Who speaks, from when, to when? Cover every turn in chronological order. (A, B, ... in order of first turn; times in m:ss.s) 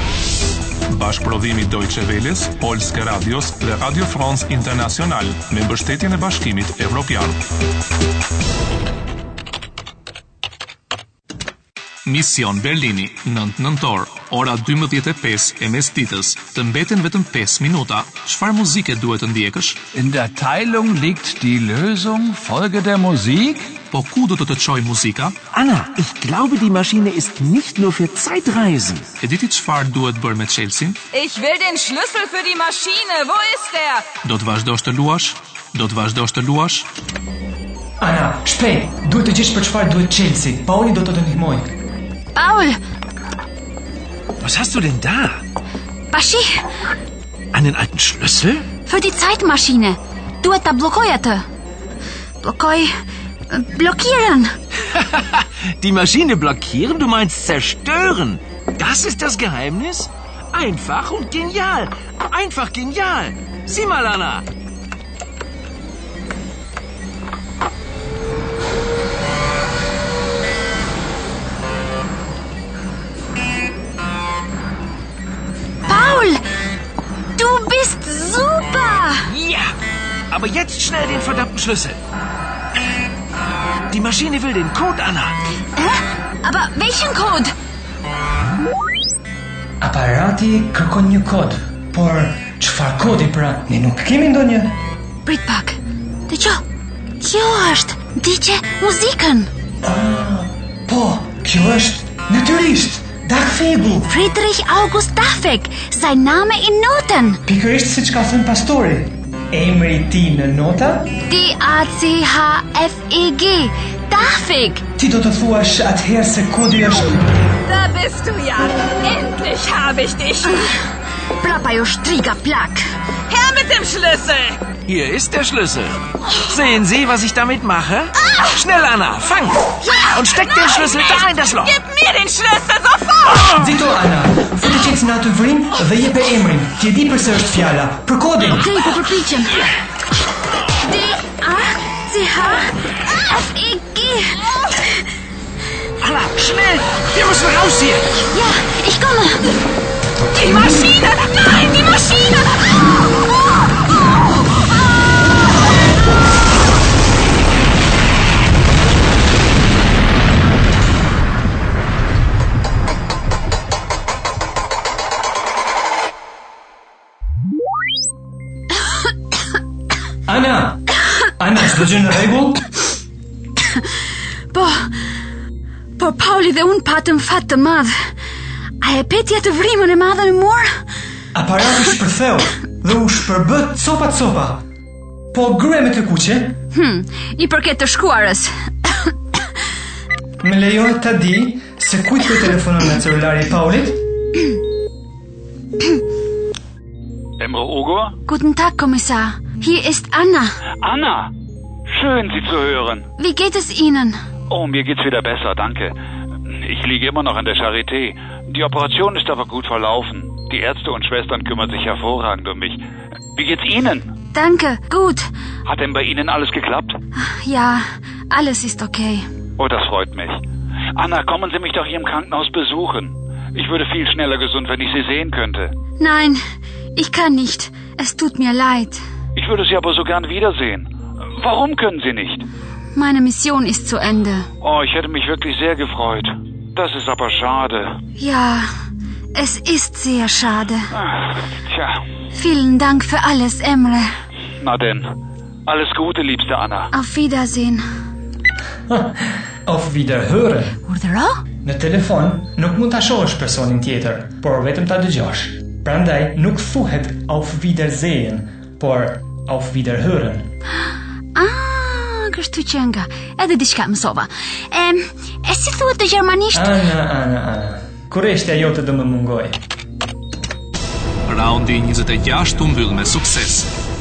0:00.9-0:07.4 A
0:12.0-0:19.8 A
0:19.9-0:23.7 B
0:23.9-0:25.4 A
0:25.5-0:29.1 C
0:29.2-0:31.0 A
0:31.1-0:34.1 D
0:34.2-0:36.9 A
0:38.0-0:41.7 E
0:42.3-0:42.8 F
0:44.4-0:45.4 C
0:46.1-0:46.6 F
0:47.5-0:48.7 C
0:48.9-0:51.4 F
0:52.4-0:52.9 F
0:53.5-0:54.5 F
0:54.9-1:04.4 C
1:15.9-1:16.4 F
1:17.4-1:19.3 F
1:19.3-1:19.7 C
1:20.3-1:22.0 C
1:23.9-1:25.4 C
1:25.8-1:27.5 F
1:29.8-1:34.8 E
1:35.2-1:35.8 F
1:36.3-1:36.6 F
1:37.2-1:39.5 F
1:39.8-1:44.1 E
1:44.1-1:47.4 F
1:47.5-1:51.1 E
1:51.3-1:54.8 F
1:55.0-1:57.2 E
1:57.7-2:00.6 D
2:01.4-2:02.8 F
2:03.3-2:04.7 D
2:04.9-2:11.8 C
2:10.6-2:13.5 D
2:13.5-2:18.7 E
2:18.5-2:19.6 F
2:20.8-2:24.7 F
2:26.0-2:28.1 C
2:28.3-2:29.5 F
2:30.4-2:32.4 F
2:31.4-2:31.7 D
2:50.3-2:52.7 E
2:54.5-2:54.9 F
2:56.0-2:57.9 F
2:58.8-3:00.7 F
3:01.3-3:04.6 E
3:05.3-3:06.6 E
3:06.7-3:09.1 F
3:10.4-3:14.0 E
3:17.4-3:18.2 G
3:18.3-3:20.5 F
3:20.8-3:21.3 G
3:21.9-3:23.1 G
3:23.2-3:24.2 F
3:24.5-3:25.9 G
3:26.5-3:32.8 G
3:33.4-3:34.1 G
3:34.3-3:35.2 F
3:35.7-3:37.0 G
3:37.2-3:39.3 F
3:39.6-3:40.4 G
3:41.0-3:45.7 G
3:46.0-3:46.4 F
3:47.0-3:49.0 F
3:49.4-3:52.5 G
3:53.0-3:54.5 F
3:54.6-3:58.0 G
3:58.2-3:58.7 F
3:59.4-4:00.9 F
4:00.9-4:02.0 G
4:02.3-4:04.1 F
4:04.6-4:05.1 G
4:05.7-4:06.9 G
4:06.9-4:07.8 F
4:08.9-4:10.8 E
4:10.9-4:11.4 F
4:11.6-4:20.5 E
4:21.4-4:26.7 F
4:26.5-4:29.6 E
4:31.3-4:33.7 A